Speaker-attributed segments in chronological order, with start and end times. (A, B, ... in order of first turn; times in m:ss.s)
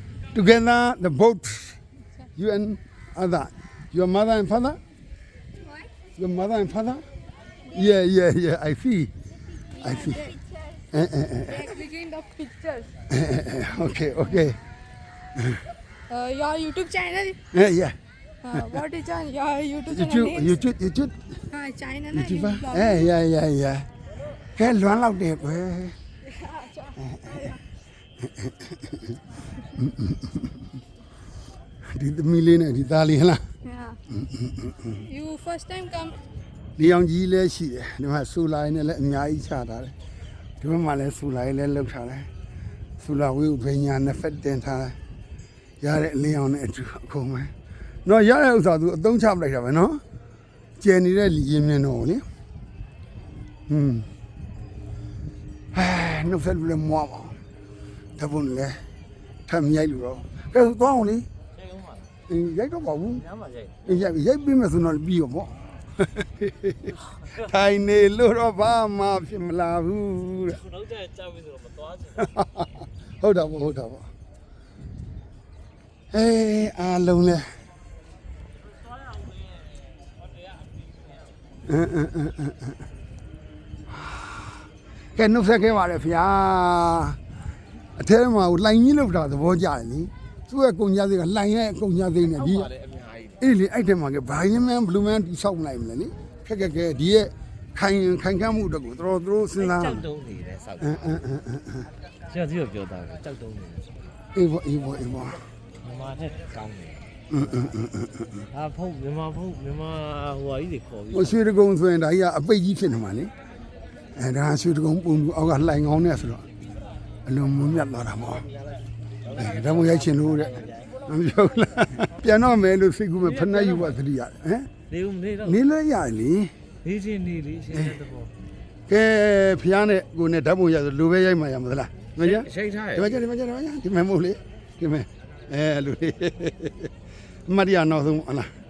0:00.3-0:01.8 A
0:02.4-0:04.8 A
0:06.2-0:07.0 A
0:07.7-0:09.1 A
0:09.7-0:10.4 A
0:09.9-0:10.4 B
0:10.9-0:11.7 A
0:11.5-0:12.9 B
0:13.1-0:14.6 A
0:16.1-0:17.4 B
0:17.5-0:18.0 A
0:18.4-0:20.5 B
0:18.6-0:18.8 A
0:19.9-0:21.5 A
0:21.5-0:23.0 B
0:22.1-0:23.9 A
0:24.6-0:26.0 A
0:26.4-0:26.9 B
0:27.1-0:27.5 A
0:28.2-0:29.2 A
0:29.8-0:30.5 A
0:31.9-0:33.5 A
0:33.7-0:34.0 B
0:34.1-0:35.0 A
0:35.0-0:36.2 B
0:36.8-0:39.9 A
0:40.6-0:42.3 A
0:43.0-0:45.0 A
0:45.8-0:47.5 A
0:48.0-0:50.0 A
0:50.8-0:52.2 A
0:53.7-0:54.1 A
0:55.7-0:57.4 A
0:58.2-0:58.8 A
0:59.5-1:01.3 A
1:01.5-1:02.1 C
1:02.3-1:03.2 A
1:03.2-1:04.1 C
1:03.9-1:10.6 A
1:10.5-1:12.3 C
1:12.2-1:14.1 A
1:16.1-1:17.6 A
1:19.0-1:21.1 C
1:21.6-1:22.8 A
1:23.9-1:24.6 A
1:25.2-1:27.2 A
1:28.0-1:32.7 A
1:32.3-1:33.5 C
1:33.4-1:40.0 A
1:39.6-1:41.2 C
1:40.8-1:41.9 A
1:42.3-1:44.2 C
1:44.4-1:45.5 A
1:45.8-1:47.7 C
1:47.3-1:48.5 A
1:48.5-1:51.4 C
1:51.1-1:53.3 A
1:54.2-1:56.5 A
1:57.2-1:58.5 A
1:59.2-2:00.9 C
1:59.4-2:04.7 A
2:03.2-2:04.0 C
2:04.9-2:05.6 C
2:05.4-2:06.5 A
2:06.8-2:08.3 C
2:07.7-2:08.0 A
2:08.9-2:16.9 A
2:12.2-2:13.2 C
2:17.5-2:18.5 A